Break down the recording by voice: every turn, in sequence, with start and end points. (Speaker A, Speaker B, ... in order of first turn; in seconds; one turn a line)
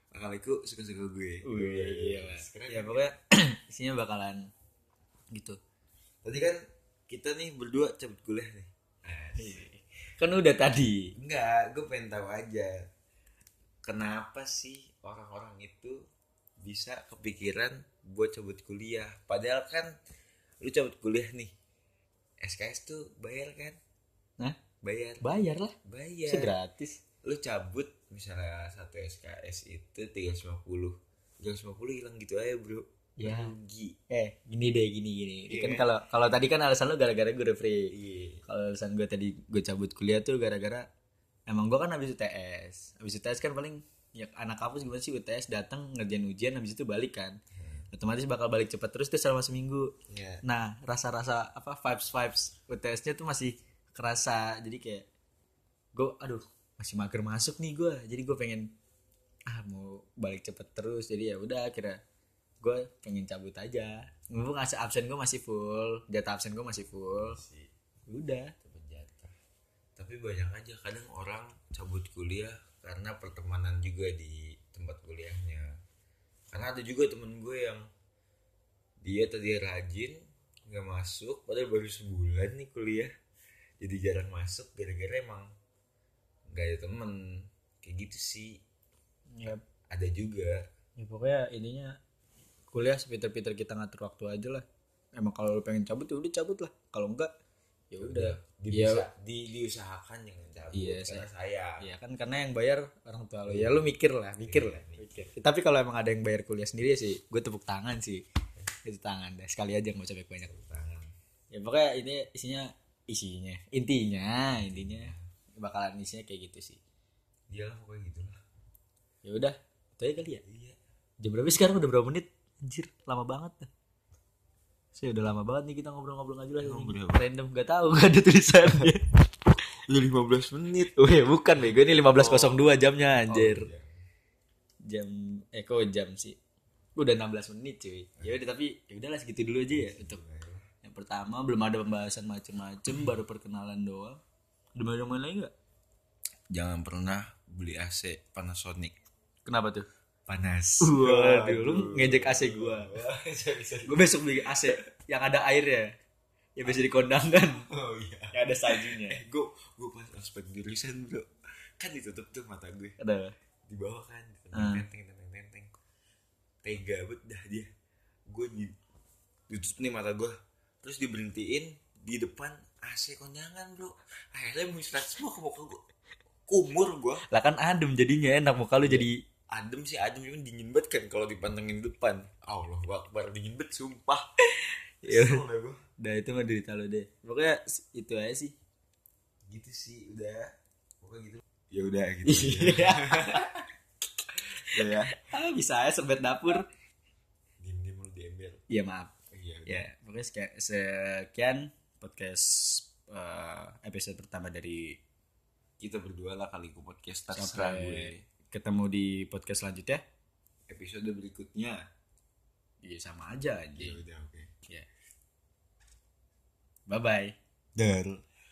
Speaker A: 0.1-3.1
Speaker B: 1.4-4.5
Speaker B: 5.3-5.6
Speaker A: 6.2-9.6
Speaker B: 9.4-11.1
Speaker A: 11.2-12.8
Speaker A: 13.8-16.0
Speaker A: 16.6-19.9
Speaker A: 20.6-21.5
Speaker A: 22.4-23.8
Speaker A: 24.8-25.3
Speaker B: 25.2-25.7
Speaker A: 25.9-26.5
Speaker B: 26.3-27.0
Speaker A: 27.2-34.0
Speaker B: 33.2-33.5
Speaker B: 34.1-37.9
Speaker A: 35.5-35.9
Speaker A: 37.9-38.4
Speaker B: 38.5-40.9
Speaker B: 41.5-47.4
Speaker A: 47.6-47.9
Speaker B: 47.9-49.9
Speaker A: 50.1-50.4
Speaker B: 50.4-55.1
Speaker B: 56.0-58.7
Speaker B: 59.5-62.0
Speaker B: 62.6-67.4
Speaker A: 67.1-67.7
Speaker B: 68.1-68.5
Speaker A: 68.6-69.3
Speaker A: 70.0-75.7
Speaker A: 76.5-77.8
Speaker A: 79.0-83.1
Speaker A: 83.8-85.5
Speaker A: 86.5-88.6
Speaker B: 89.3-89.6
Speaker A: 89.5-90.6
Speaker B: 91.0-92.0
Speaker B: 92.7-94.7
Speaker B: 95.2-97.3
Speaker B: 97.9-99.1
Speaker A: 98.0-101.9
Speaker B: 100.7-101.3
Speaker B: 101.8-108.2
Speaker A: 103.5-105.3
Speaker B: 108.8-110.5
Speaker A: 110.5-111.1
Speaker B: 111.5-116.8
Speaker A: 114.6-115.2
Speaker A: 117.5-118.4
Speaker B: 119.2-120.4
Speaker A: 120.4-120.8
Speaker B: 121.2-123.7
Speaker B: 124.9-129.1
Speaker A: 126.6-127.2
Speaker A: 129.9-130.9
Speaker B: 130.8-133.7
Speaker A: 131.7-133.9
Speaker B: 134.9-136.4
Speaker B: 137.0-140.2
Speaker A: 139.7-140.6
Speaker B: 140.8-144.2
Speaker B: 144.8-145.5
Speaker A: 146.5-148.9
Speaker B: 149.4-149.9
Speaker A: 150.3-154.8
Speaker B: 150.8-152.9
Speaker B: 153.8-155.9
Speaker B: 156.6-157.7
Speaker A: 157.7-161.3
Speaker B: 158.3-159.2
Speaker A: 161.8-163.0
Speaker B: 163.0-163.3
Speaker A: 163.7-165.7
Speaker B: 164.5-164.9
Speaker A: 166.6-167.7
Speaker A: 168.3-168.8
Speaker A: 169.5-175.8
Speaker A: 176.5-177.2
Speaker B: 177.3-179.2
Speaker A: 178.8-184.2
Speaker B: 184.5-185.4
Speaker A: 185.0-185.8
Speaker B: 186.0-188.6
Speaker A: 189.5-193.5
Speaker B: 192.2-193.7
Speaker B: 194.6-196.7
Speaker A: 194.7-195.2
Speaker A: 197.6-198.6
Speaker B: 198.7-199.1
Speaker A: 199.3-199.8
Speaker B: 199.7-205.0
Speaker A: 205.8-208.2
Speaker B: 207.3-210.0
Speaker A: 210.7-211.8
Speaker B: 212.8-214.0
Speaker A: 213.8-214.5
Speaker B: 216.9-217.3
Speaker A: 217.8-218.2